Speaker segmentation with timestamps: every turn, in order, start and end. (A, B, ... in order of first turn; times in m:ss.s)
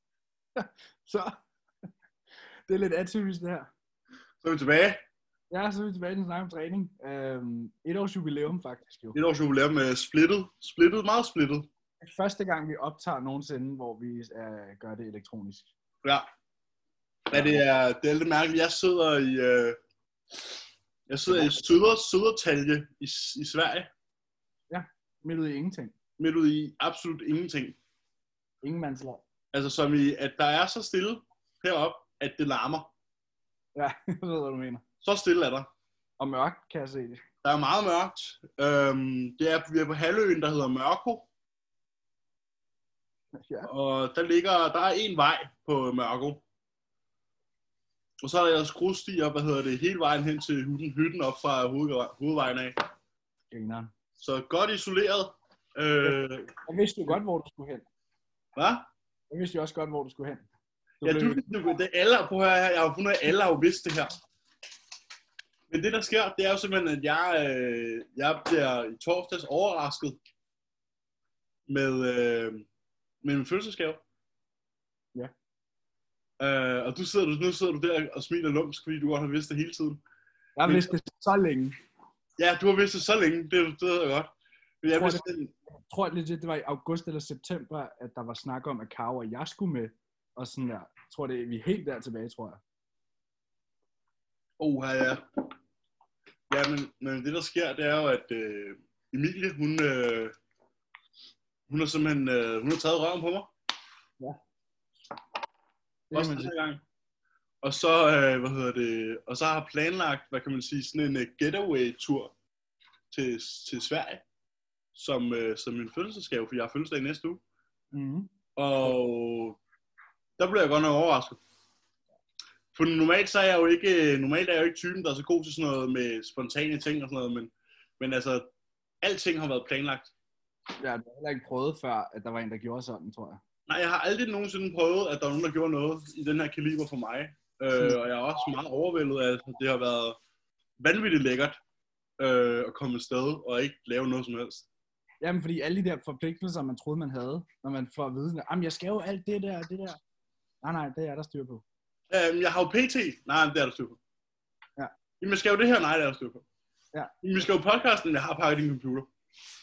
0:00.6-0:01.3 A
0:02.7-0:03.7 A
0:04.4-0:05.0 B
0:05.5-0:09.2 A
0:09.1-0:11.7 B
0:12.0-0:15.7 A
0:17.3-0:19.8 B
0:17.3-0:17.6 A
0:21.1-0:23.9 B
0:21.3-0:21.5 A
0:24.7-0:25.9 A
0:26.2-0:27.8 B
0:28.6-0:29.2 A
0:29.5-0:32.9 B
0:33.8-0:34.8 A
0:35.0-0:35.7 B
0:36.2-0:37.2 A
0:37.4-0:41.3 B
0:43.4-0:43.7 A
0:43.7-0:46.4 B
0:48.2-0:52.8 B
0:53.5-0:53.9 A
0:54.2-0:56.5 B
0:56.0-0:57.9 A
0:58.6-0:58.9 B
0:59.3-1:00.5 A
1:01.0-1:01.4 A
1:01.0-1:04.2 B
1:05.7-1:10.2 B
1:11.7-1:12.7 B
1:13.2-1:14.0 B
1:16.4-1:20.0 B
1:20.6-1:21.8 A
1:20.7-1:20.9 B
1:22.4-1:25.5 B
1:24.9-1:25.2 A
1:25.9-1:32.6 A
1:34.6-1:35.2 B
1:36.5-1:40.3 B
1:41.7-1:43.5 B
1:46.1-1:46.6 A
1:46.1-1:46.8 B
1:47.6-1:52.3 B
1:53.1-1:54.2 B
1:55.0-1:57.4 B
1:57.9-1:58.3 A
1:58.6-1:59.6 B
2:00.4-2:01.4 B
2:02.7-2:08.5 B
2:09.0-2:10.1 B
2:10.8-2:13.4 A
2:13.7-2:20.2 B
2:17.8-2:18.0 A
2:20.8-2:21.6 B
2:22.2-2:24.7 B
2:25.2-2:30.0 A
2:30.6-2:31.6 A
2:32.1-2:34.0 B
2:35.2-2:36.4 B
2:37.2-2:39.1 B